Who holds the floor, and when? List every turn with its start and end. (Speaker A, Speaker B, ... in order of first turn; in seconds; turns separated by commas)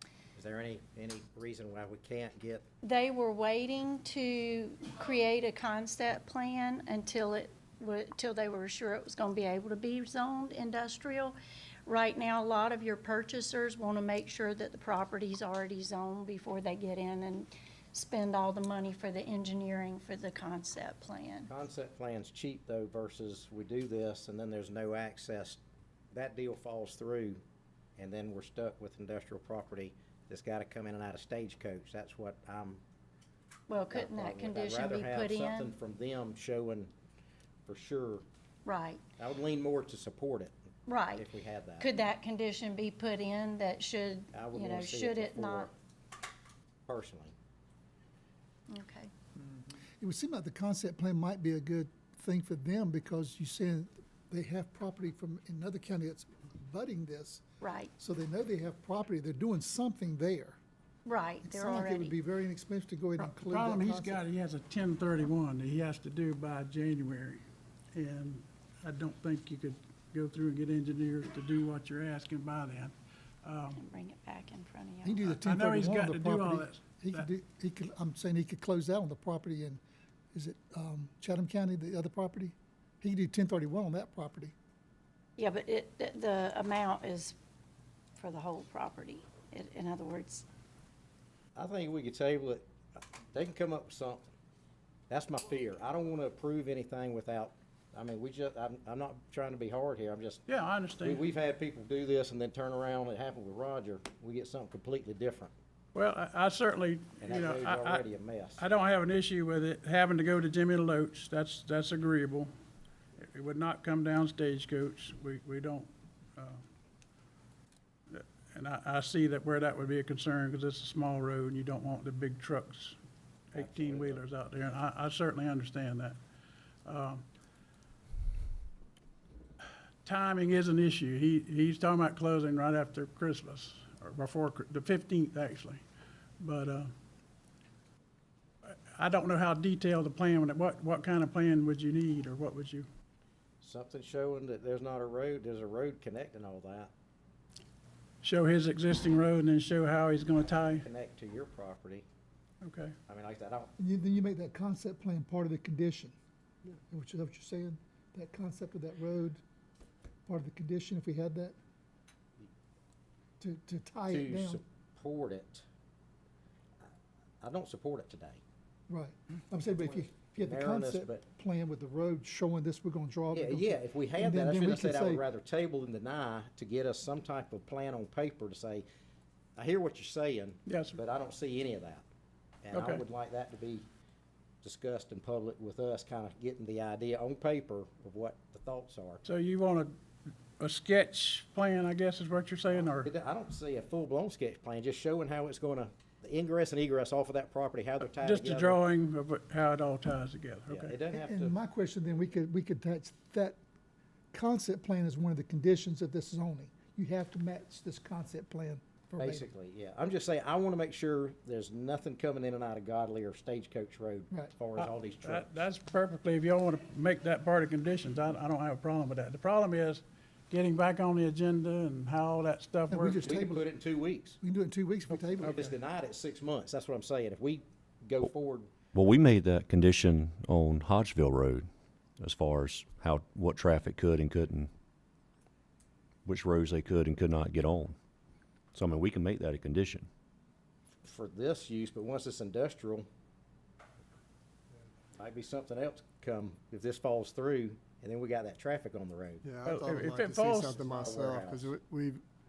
Speaker A: 0.3-2.6, Speaker B: 2.8-21.5, Speaker A: 21.5-25.6, Speaker A: 26.1-27.4, Speaker A: 28.0-32.8, Speaker B: 33.7-35.7, Speaker A: 33.9-36.9, Speaker A: 37.6-38.2, Speaker B: 38.6-39.0, Speaker A: 39.2-40.5, Speaker B: 40.9-41.2, Speaker A: 41.1-41.9, Speaker B: 41.8-45.7, Speaker A: 44.3-45.7, Speaker A: 46.9-47.3, Speaker B: 48.7-49.1, Speaker C: 50.0-57.4, Speaker B: 57.6-57.9, Speaker C: 58.0-60.6, Speaker B: 61.0-62.1, Speaker C: 61.4-64.2, Speaker D: 63.2-67.4, Speaker D: 67.9-72.9, Speaker D: 73.4-73.8, Speaker B: 73.8-75.3, Speaker C: 75.0-79.8, Speaker D: 75.3-77.3, Speaker C: 80.3-84.5, Speaker B: 85.4-87.3, Speaker B: 88.2-90.4, Speaker A: 91.5-94.3, Speaker A: 95.1-100.4, Speaker D: 100.5-101.2, Speaker A: 101.0-105.5, Speaker D: 105.9-108.0, Speaker A: 107.2-108.6, Speaker D: 108.6-112.5, Speaker D: 113.2-116.6, Speaker D: 118.1-123.0, Speaker D: 123.5-126.2, Speaker A: 123.5-124.2, Speaker D: 126.8-127.2, Speaker D: 130.0-135.8, Speaker D: 136.4-136.9, Speaker D: 138.7-142.9, Speaker A: 143.6-146.9, Speaker D: 148.2-150.8, Speaker A: 150.6-152.0, Speaker D: 152.6-152.9, Speaker A: 153.1-153.7, Speaker C: 153.8-156.1, Speaker C: 156.9-159.4, Speaker C: 160.3-161.5, Speaker C: 163.4-164.6, Speaker A: 164.1-165.6, Speaker A: 167.4-168.4, Speaker C: 168.9-175.2, Speaker A: 169.9-171.2, Speaker A: 173.3-178.8, Speaker A: 179.6-182.0, Speaker D: 180.7-181.0, Speaker A: 182.6-183.8, Speaker D: 182.7-183.0, Speaker A: 184.6-189.2, Speaker D: 189.2-189.9, Speaker D: 190.6-193.1, Speaker A: 192.9-198.8, Speaker D: 198.2-201.0, Speaker A: 200.7-201.6, Speaker C: 201.1-203.6, Speaker C: 204.3-209.4, Speaker A: 209.2-215.5, Speaker D: 214.8-223.3, Speaker C: 222.9-223.7, Speaker A: 223.2-224.4, Speaker C: 224.4-225.7, Speaker A: 225.1-228.7, Speaker E: 228.9-231.7, Speaker E: 232.2-234.7, Speaker E: 236.2-237.9, Speaker E: 238.7-240.1, Speaker A: 241.0-243.1, Speaker A: 245.2-249.8, Speaker F: 249.4-252.2, Speaker D: 249.7-250.8, Speaker A: 250.8-251.7